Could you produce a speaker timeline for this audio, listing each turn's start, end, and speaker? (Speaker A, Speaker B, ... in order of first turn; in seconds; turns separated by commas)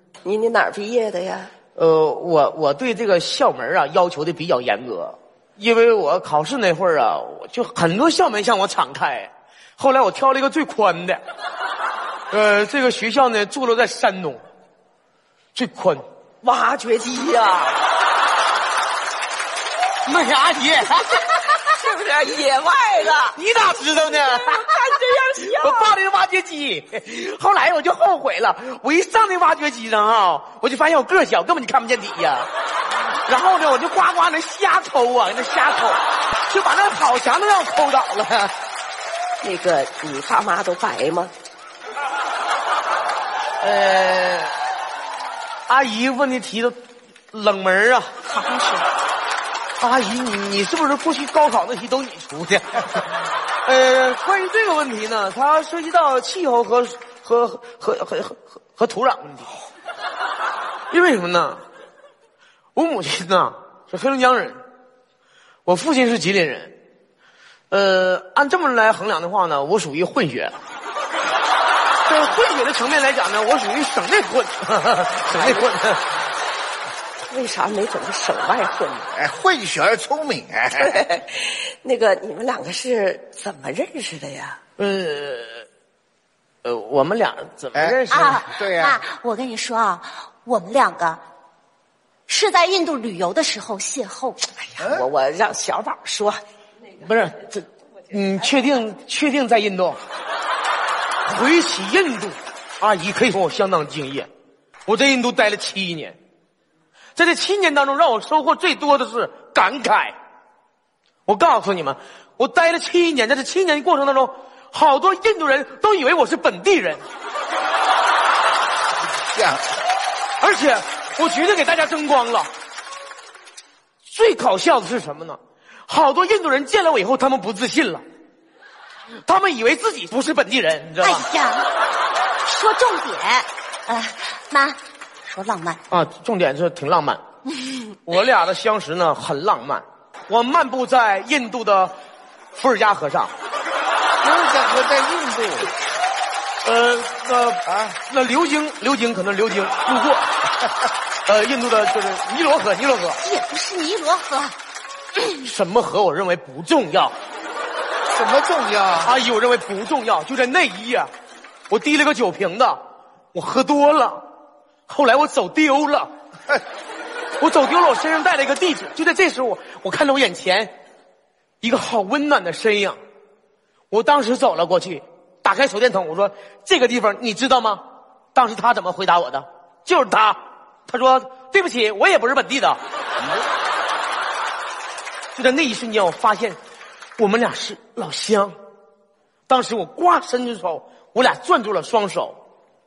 Speaker A: 0.2-1.5, Speaker B: 1.8-11.2, Speaker B: 12.3-14.4, Speaker B: 15.5-16.0, Speaker A: 16.4-17.8, Speaker B: 20.0-21.5, Speaker A: 21.6-23.4, Speaker B: 23.3-32.5, Speaker A: 24.1-25.9, Speaker B: 33.2-38.5, Speaker A: 39.4-41.3, Speaker B: 43.6-44.5, Speaker B: 45.7-46.8, Speaker B: 47.3-48.1, Speaker A: 48.3-48.8, Speaker B: 49.8-53.1, Speaker B: 53.6-59.5, Speaker B: 60.9-61.6, Speaker B: 62.7-64.6, Speaker B: 65.7-66.7, Speaker B: 67.7-70.6, Speaker B: 72.0-76.1, Speaker A: 75.3-75.7, Speaker A: 77.3-79.1, Speaker C: 79.2-81.0, Speaker A: 80.7-84.6, Speaker B: 84.8-85.7, Speaker B: 86.6-88.5, Speaker C: 87.7-89.0, Speaker D: 88.1-91.2, Speaker D: 92.3-94.4, Speaker A: 94.5-96.4, Speaker C: 94.8-95.0, Speaker B: 97.0-100.0, Speaker B: 101.2-104.3, Speaker B: 104.9-106.2, Speaker B: 107.2-110.1, Speaker B: 111.2-117.0, Speaker C: 119.2-119.6, Speaker B: 120.4-122.5, Speaker B: 124.0-128.0, Speaker B: 129.2-131.2, Speaker D: 131.0-131.7, Speaker D: 132.4-135.8, Speaker B: 135.9-137.2, Speaker B: 137.8-141.9, Speaker B: 142.6-143.3, Speaker C: 144.2-145.7, Speaker B: 146.6-150.3, Speaker B: 151.2-153.2, Speaker D: 153.2-154.5, Speaker B: 155.3-157.1, Speaker C: 158.1-159.2, Speaker B: 159.0-161.1, Speaker B: 161.7-162.8, Speaker B: 163.3-164.3, Speaker B: 164.9-166.1, Speaker B: 167.4-170.7, Speaker B: 171.6-173.0, Speaker B: 173.9-177.8, Speaker B: 178.3-182.8, Speaker B: 185.3-186.6, Speaker B: 187.2-188.6, Speaker B: 189.5-192.4